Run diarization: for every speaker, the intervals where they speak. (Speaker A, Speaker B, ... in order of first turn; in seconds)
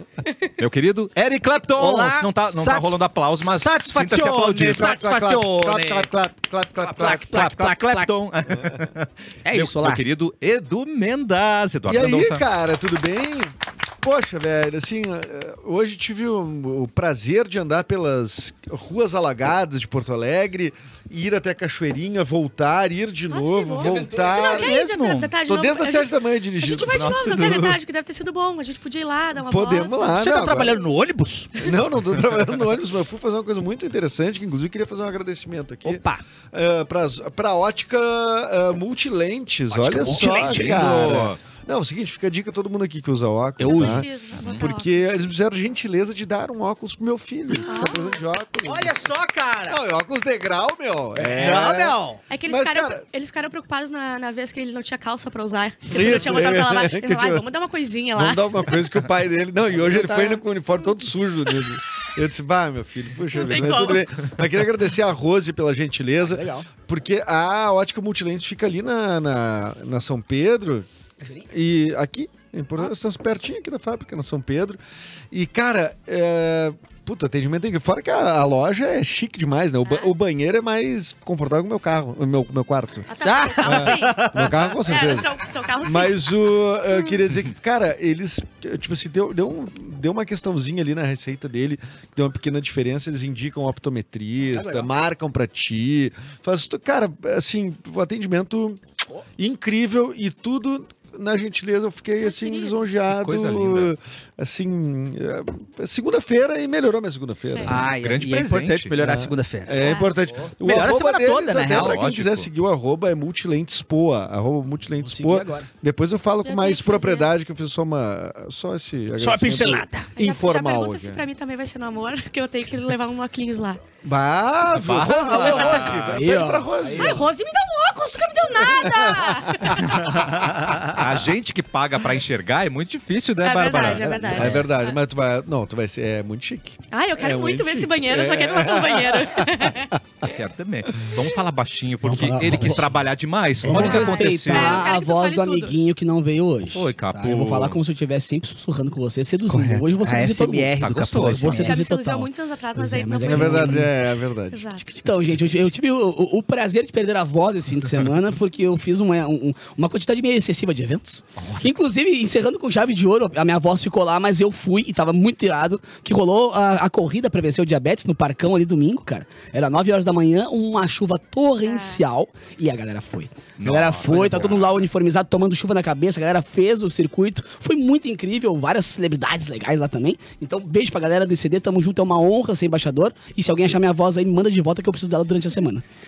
Speaker A: 0.2-0.5, 23.3-30.1, 43.6-44.9, 47.7-48.2, 52.3-58.8, 63.3-64.1, 83.1-84.2, 84.9-86.3, 102.2-103.0, 109.8-110.1, 116.4-117.3, 120.2-123.8, 125.4-125.9, 127.0-130.2, 133.4-135.0, 136.9-140.4, 143.7-145.7, 151.5-153.9, 154.5-154.8, 171.6-172.0
Speaker B: 0.6-4.9, 6.8-12.4, 26.9-27.8, 40.4-41.4, 103.1-103.9, 107.9-109.0, 111.6-112.5, 124.8-126.2, 130.2-134.7, 140.2-144.9, 146.7-147.8, 150.8-151.6, 161.4-161.7, 173.6-174.9
Speaker C: 1.8-6.1, 7.0-8.2, 9.5-10.0, 24.2-25.3, 30.1-31.7, 35.9-36.2, 39.7-41.3, 43.6-44.1, 48.6-49.8, 51.4-52.2, 83.2-85.1, 107.7-110.0, 110.6-112.0, 119.2-120.1, 149.5-151.7
Speaker D: 4.6-7.4, 11.9-24.8, 25.5-27.1, 29.4-30.8, 31.6-48.9, 49.7-53.0, 55.9-57.5, 58.2-70.9, 71.5-74.8, 75.3-83.1, 83.6-98.8, 99.4-107.8, 109.0-121.3, 124.0-127.3, 128.5-130.1, 134.3-139.9, 153.2-154.7
Speaker E: 23.8-24.2, 51.2-51.6, 59.7-60.4, 66.3-66.7, 71.2-71.5, 94.5-94.9, 115.0-115.7, 125.9-127.2, 133.8-134.6, 142.0-142.9, 143.6-153.9, 154.9-185.8